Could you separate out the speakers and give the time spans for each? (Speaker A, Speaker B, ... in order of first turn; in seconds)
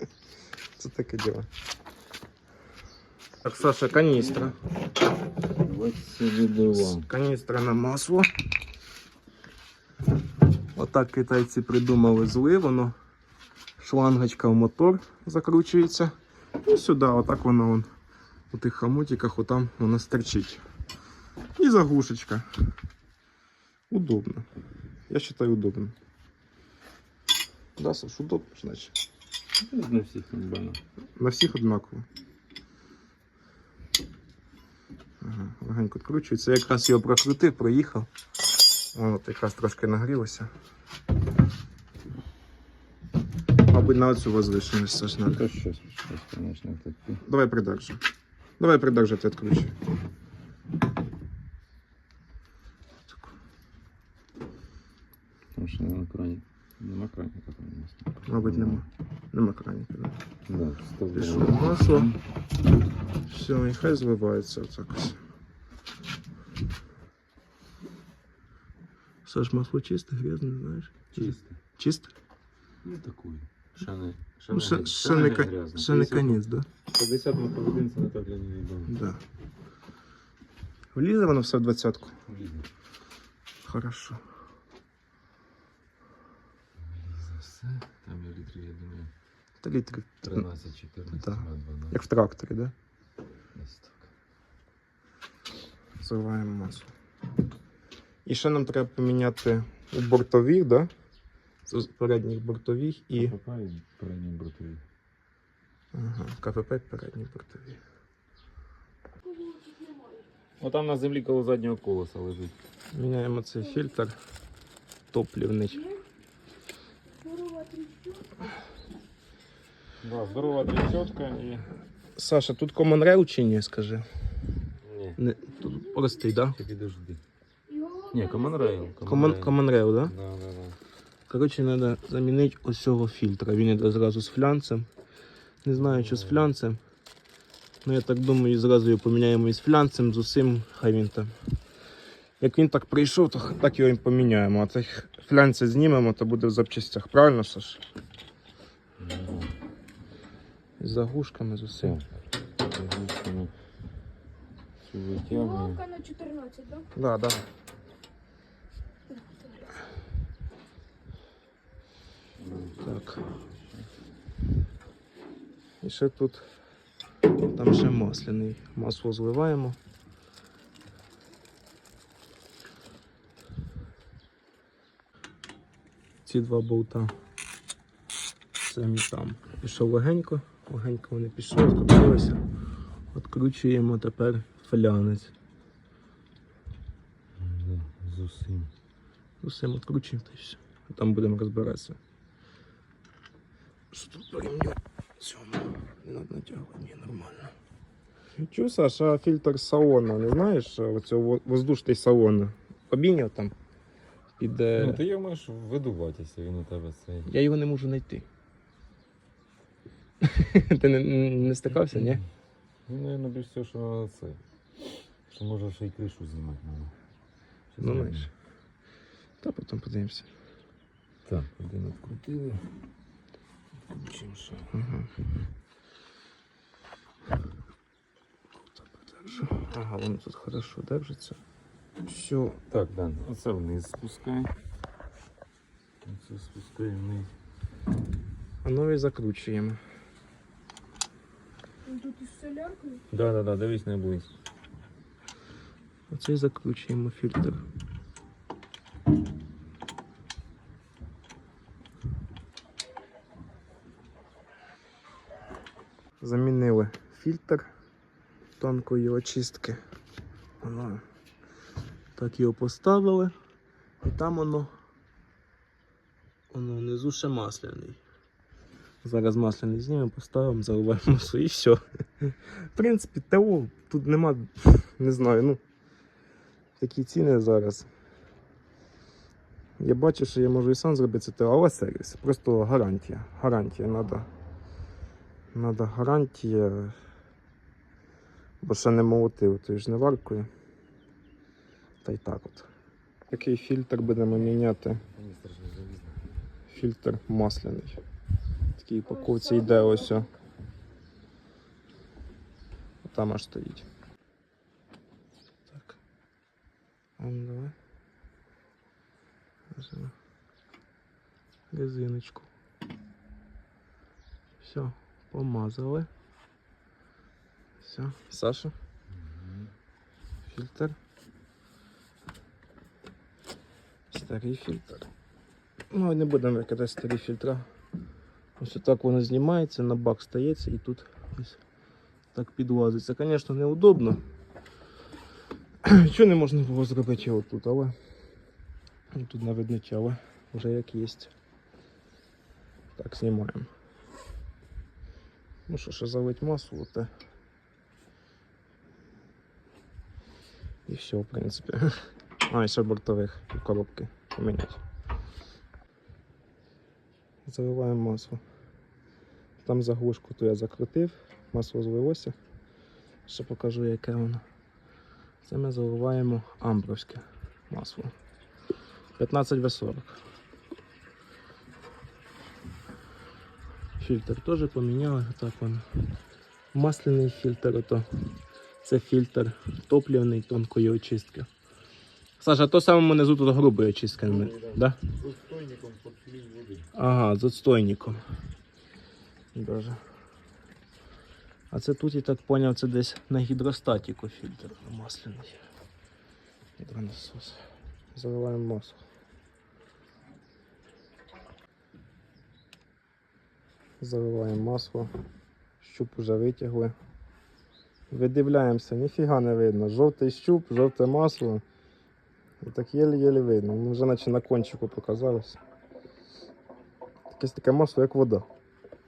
Speaker A: 0.8-1.5, 3.4-4.6, 6.7-8.3, 10.8-12.9, 13.8-17.9, 18.5-20.6, 21.6-22.5, 23.9-24.5, 25.1-25.9, 27.8-28.9, 31.2-32.1, 35.2-38.1, 39.0-40.5, 43.7-45.4, 47.2-48.0, 48.6-49.8, 58.3-60.2, 61.1-62.1, 63.3-65.2, 69.3-72.1, 74.5-76.7, 78.9-79.2, 81.0-82.1, 83.7-84.2, 89.6-90.5, 91.2-92.7, 96.0-96.9, 98.3-100.9, 101.7-103.3, 105.9-107.8, 112.9-114.2, 115.1-115.9, 122.2-124.1, 125.2-126.6, 129.1-130.1, 131.3-134.9, 135.6-136.8, 137.8-141.3, 142.4-147.8, 150.8-152.0, 156.9-157.4, 162.8-163.2, 165.8-166.4, 167.5-169.8, 176.2-177.1, 178.6-182.4, 183.1-185.3, 189.4-192.0, 193.9-197.5, 198.4-203.6, 204.4-205.0, 207.3-208.2, 210.2-212.2, 217.8-218.3, 219.4-220.3, 224.7-225.1, 229.1-231.4, 232.1-232.6, 238.6-239.8, 246.1-247.6, 256.2-257.7, 258.6-259.8, 260.6-261.0, 262.2-263.3, 264.0-264.7, 266.5-268.0, 269.0-275.6, 276.8-277.9, 279.8-284.3, 285.5-286.9, 288.6-290.5, 292.0-292.7, 293.3-295.0, 296.7-298.0, 298.8-300.3, 303.1-303.9, 307.2-307.7, 309.7-310.1, 311.7-312.5, 314.6-316.1, 317.8-318.7, 320.5-321.0, 324.1-325.1, 325.9-327.6, 328.6-331.6, 332.3-334.2, 335.8-337.9, 339.1-341.3, 343.0-343.7, 345.7-347.1, 350.9-351.9, 352.5-354.8, 357.5-358.4, 359.6-362.4, 363.3-364.4, 365.4-368.1, 369.2-370.2, 374.0-375.9, 376.7-378.2, 378.8-381.5, 382.4-385.0, 386.9-388.2, 389.6-390.0, 391.7-395.6, 396.8-397.6, 398.1-399.0, 404.0-405.1, 405.8-406.9, 408.1-411.6, 412.6-415.6, 417.3-418.5
Speaker B: 4.0-4.5, 5.5-7.1, 29.6-30.8, 45.2-47.2, 55.5-58.9, 60.5-62.2, 71.1-71.6, 72.8-79.0, 82.3-82.7, 86.8-89.1, 90.2-92.0, 93.5-94.1, 103.2-104.8, 110.6-112.6, 120.0-121.7, 124.8-125.2, 126.6-127.2, 128.1-130.8, 135.8-136.5, 149.0-149.5, 152.6-153.5, 154.8-155.8, 162.4-163.9, 187.4-188.7, 204.8-207.3, 211.9-212.2, 212.9-214.4, 215.3-216.9, 217.7-218.3, 221.3-222.7, 223.9-224.7, 232.7-234.5, 236.0-237.3, 243.1-244.3, 295.1-296.4, 319.1-319.7, 384.2-386.9
Speaker C: 109.2-110.2, 117.2-118.4, 127.7-128.9, 155.3-156.9, 159.1-159.7, 241.8-243.0, 299.1-300.3